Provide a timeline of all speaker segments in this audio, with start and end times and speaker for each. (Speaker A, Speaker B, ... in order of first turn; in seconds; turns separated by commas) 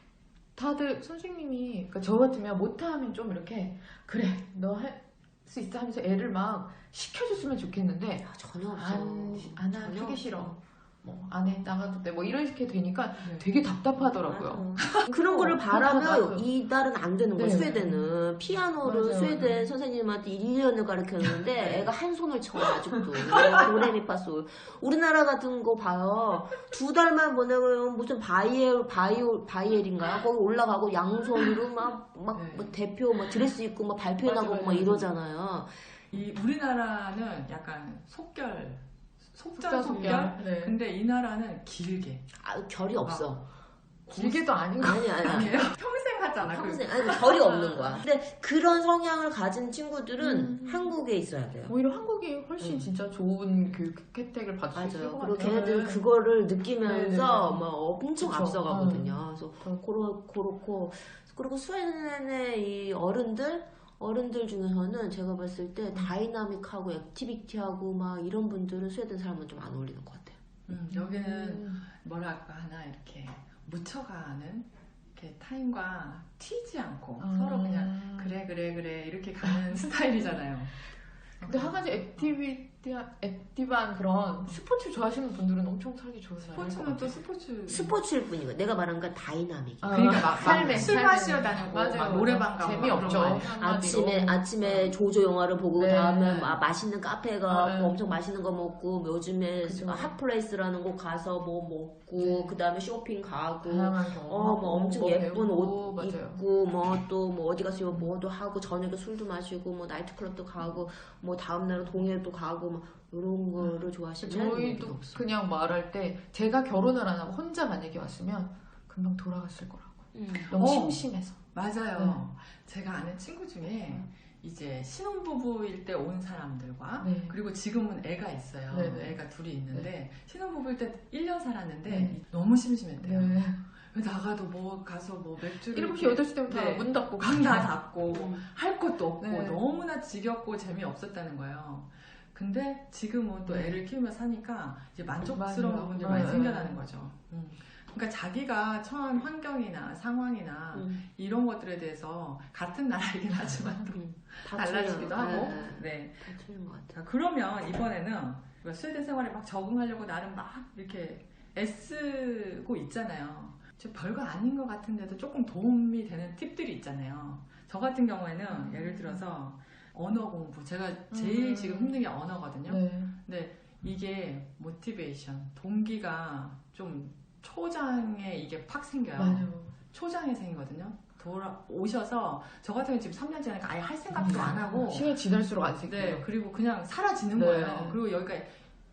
Speaker A: 0.6-16.4, Speaker B: 8.2-10.6, Speaker B: 13.9-35.7, Speaker A: 17.3-18.0, Speaker C: 17.5-17.8, Speaker A: 18.8-19.5, Speaker C: 21.6-21.9, Speaker C: 32.3-32.7, Speaker A: 34.2-35.1, Speaker C: 36.1-38.8, Speaker C: 39.3-42.3, Speaker A: 39.6-40.8, Speaker B: 39.9-40.3, Speaker B: 42.4-43.5, Speaker C: 43.0-43.3, Speaker C: 44.1-44.5, Speaker A: 44.1-45.5, Speaker B: 44.8-45.6, Speaker C: 45.1-48.0, Speaker B: 46.4-51.7, Speaker A: 50.2-50.9, Speaker A: 51.7-56.0, Speaker B: 52.6-52.9, Speaker B: 54.7-70.4, Speaker C: 55.1-55.9, Speaker A: 56.8-57.6, Speaker A: 58.2-59.8, Speaker C: 70.7-80.7, Speaker A: 70.9-71.8, Speaker A: 77.2-78.5, Speaker C: 81.4-82.3, Speaker A: 81.4-87.2, Speaker C: 86.4-88.0, Speaker B: 87.7-91.0, Speaker A: 89.8-94.9, Speaker C: 89.9-93.6, Speaker B: 93.1-115.2, Speaker A: 95.7-96.6, Speaker A: 97.5-98.0, Speaker A: 99.6-100.1, Speaker A: 102.2-102.5, Speaker A: 103.6-106.4, Speaker A: 113.6-121.4, Speaker B: 120.1-120.5, Speaker C: 120.4-156.3, Speaker A: 122.0-122.2, Speaker A: 127.0-127.4, Speaker A: 128.7-129.2, Speaker A: 131.9-132.2, Speaker A: 133.0-133.6, Speaker A: 135.5-137.7, Speaker B: 138.1-138.4, Speaker A: 139.2-139.6, Speaker A: 143.4-143.8, Speaker A: 145.2-146.8, Speaker B: 150.7-151.1, Speaker B: 153.9-157.0, Speaker A: 154.5-155.7, Speaker C: 156.9-185.2, Speaker A: 168.5-169.2, Speaker A: 171.1-172.0, Speaker A: 172.7-173.1, Speaker A: 179.2-179.7, Speaker A: 184.1-186.3, Speaker C: 185.8-188.6, Speaker A: 187.3-188.0